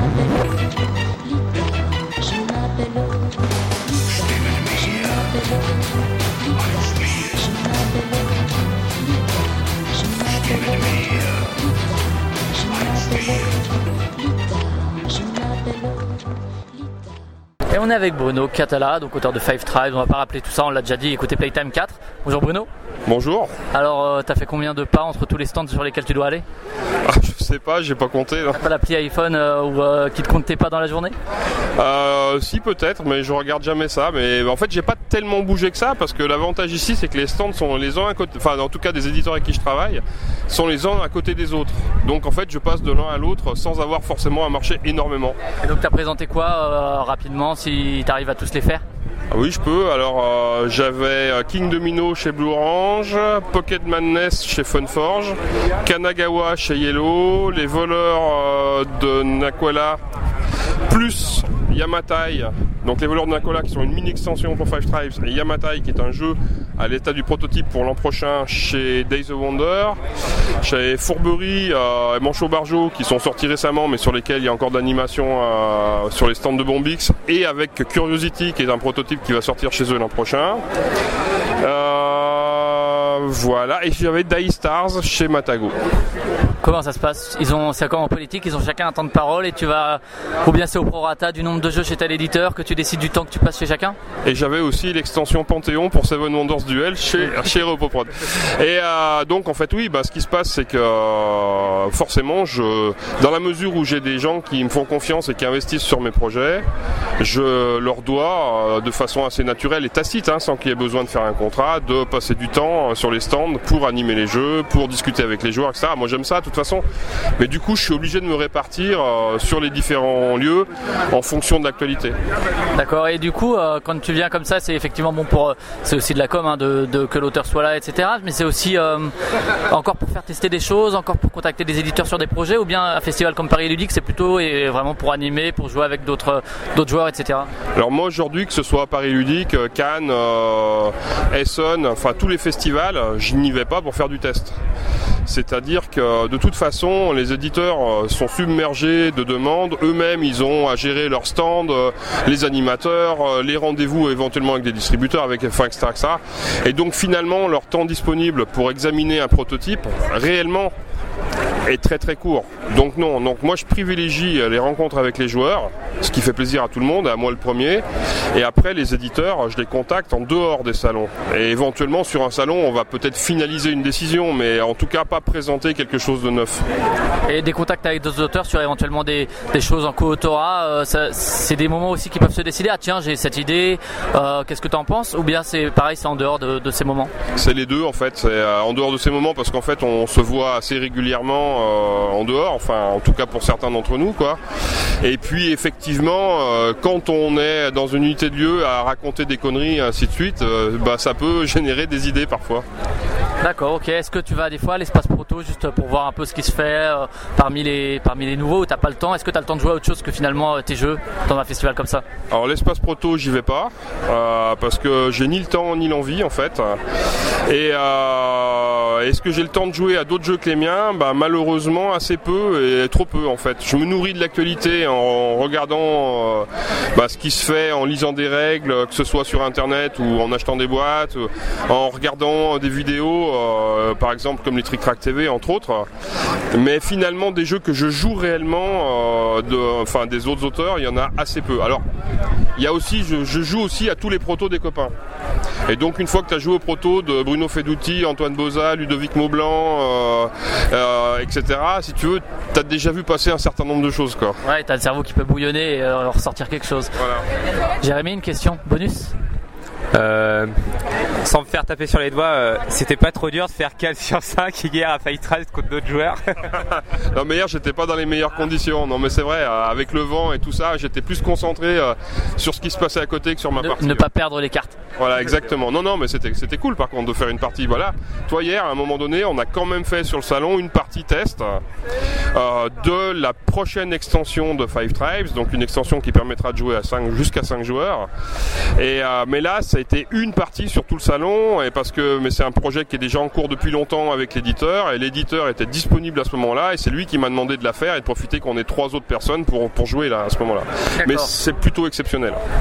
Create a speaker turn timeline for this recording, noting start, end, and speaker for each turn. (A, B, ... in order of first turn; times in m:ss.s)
0:17.7-0:22.7 A
0:23.1-0:23.5 B
0:23.7-0:26.4 A
0:27.0-0:28.6 B
0:28.5-0:31.2 A
0:31.8-0:45.4 B
0:45.6-0:48.8 A
0:49.3-1:00.0 B
1:00.9-1:10.0 B
1:10.6-1:20.6 B
1:21.6-1:25.8 B
1:26.6-1:34.0 A
1:34.2-1:46.7 B
1:47.2-1:56.8 B
1:57.4-2:02.2 B
2:02.8-2:09.1 A
2:09.7-2:17.5 A
2:17.8-2:24.6 B
2:25.3-2:40.7 B
2:41.7-2:56.7 B
2:57.3-3:07.1 A
3:07.4-3:14.4 B
3:15.0-3:22.7 B
3:23.4-3:32.0 A
3:32.3-3:36.8 B
3:37.5-3:55.9 B
3:56.5-4:01.8 B
4:02.6-4:04.9 B
4:05.7-4:14.4 B
4:14.4-4:17.0 A
4:17.0-4:17.2 B
4:17.8-4:19.2 A
4:19.9-4:20.5 C
4:21.2-4:26.6 C
4:26.6-4:34.0 B
4:33.6-4:34.8 A
4:35.0-4:41.6 B
4:42.3-4:48.1 B
4:48.8-5:02.4 B
5:01.0-5:01.3 A